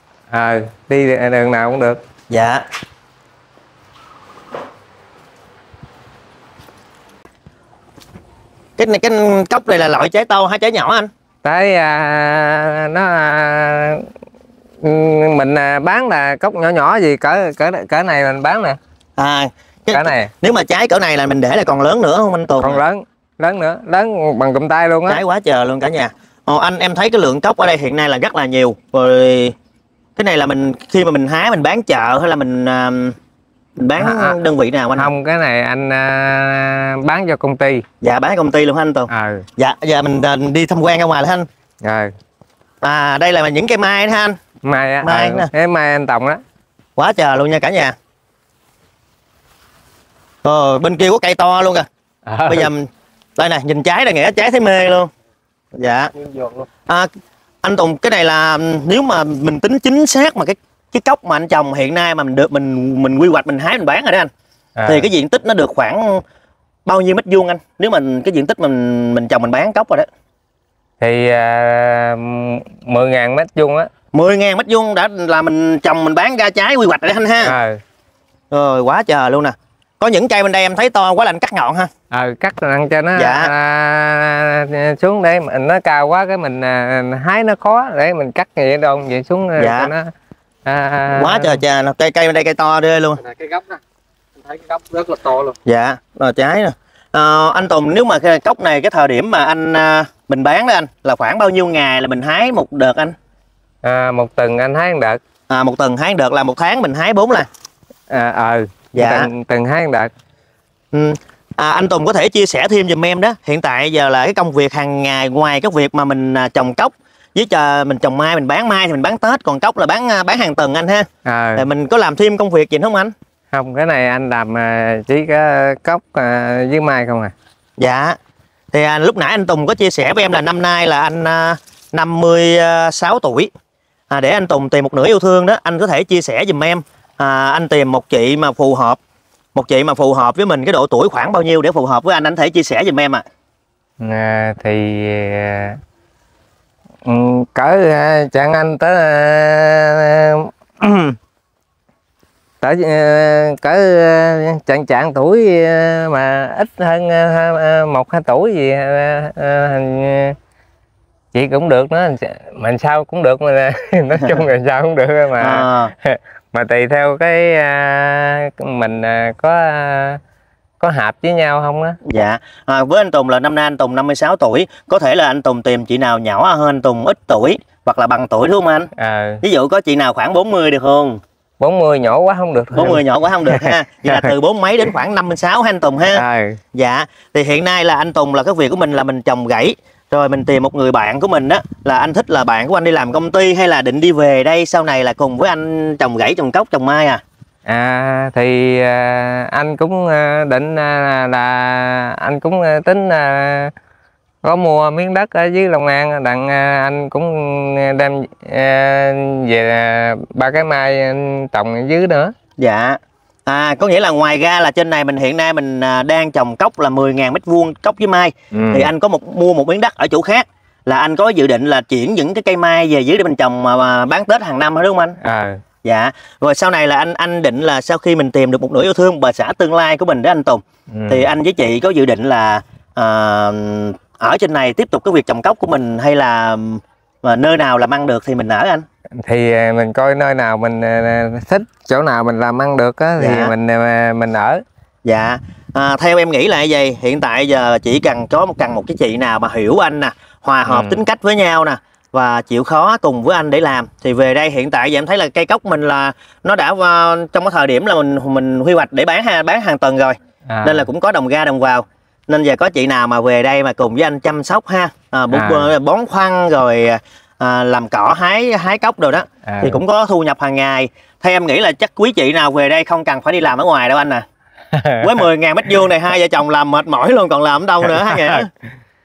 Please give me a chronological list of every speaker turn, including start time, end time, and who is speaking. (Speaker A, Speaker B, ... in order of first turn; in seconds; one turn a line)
Speaker A: 0.3-2.0
Speaker B: 2.3-2.6
Speaker B: 8.8-11.1
Speaker A: 11.4-14.1
Speaker A: 14.8-18.8
Speaker B: 19.2-22.8
Speaker A: 19.9-20.3
Speaker A: 22.6-25.2
Speaker B: 25.1-29.5
Speaker B: 30.1-33.1
Speaker B: 33.8-35.1
Speaker A: 34.0-34.4
Speaker A: 35.0-37.9
Speaker B: 38.0-41.5
Speaker A: 39.1-39.5
Speaker A: 41.8-42.1
Speaker B: 42.8-44.4
Speaker A: 44.6-46.4
Speaker B: 45.0-45.5
Speaker B: 47.0-47.9
Speaker B: 50.4-51.9
Speaker A: 52.3-52.7
Speaker B: 52.5-55.1
Speaker B: 55.7-56.1
Speaker C: 56.2-56.6
Speaker B: 57.6-64.3
Speaker A: 64.8-65.1
Speaker B: 64.8-66.2
Speaker B: 66.8-70.1
Speaker A: 71.0-73.9
Speaker B: 74.1-77.5
Speaker A: 77.4-77.8
Speaker B: 78.5-81.9
Speaker A: 82.1-90.1
Speaker B: 83.2-83.5
Speaker B: 89.6-89.9
Speaker A: 90.6-91.6
Speaker B: 91.1-93.2
Speaker C: 93.2-93.8
Speaker C: 94.4-95.5
Speaker B: 95.6-103.1
Speaker A: 103.8-105.2
Speaker B: 105.5-107.5
Speaker A: 108.1-110.1
Speaker B: 108.9-109.3
Speaker B: 110.9-123.1
Speaker A: 121.2-121.7
Speaker A: 123.5-127.3
Speaker B: 127.8-128.2
Speaker B: 128.7-133.5
Speaker B: 134.1-139.0
Speaker B: 139.5-143.2
Speaker A: 144.0-145.8
Speaker A: 147.0-151.2
Speaker A: 152.6-160.4
Speaker A: 161.3-170.2
Speaker B: 165.4-165.9
Speaker A: 170.8-172.0
Speaker B: 172.0-178.9
Speaker A: 178.9-179.4
Speaker B: 179.4-181.2
Speaker A: 181.6-184.3
Speaker B: 182.7-186.2
Speaker A: 186.1-186.6
Speaker B: 186.7-197.2
Speaker A: 197.7-203.7
Speaker A: 204.4-212.3
Speaker B: 212.6-225.2
Speaker A: 218.5-218.9
Speaker A: 225.2-225.6
Speaker B: 225.8-238.8
Speaker A: 230.9-231.3
Speaker A: 239.2-244.6
Speaker B: 243.2-243.5
Speaker B: 245.0-274.2
Speaker A: 250.7-251.0
Speaker A: 260.5-260.9
Speaker A: 265.3-265.7
Speaker A: 269.4-269.8
Speaker A: 274.7-275.2
Speaker B: 275.0-278.5
Speaker A: 277.9-278.5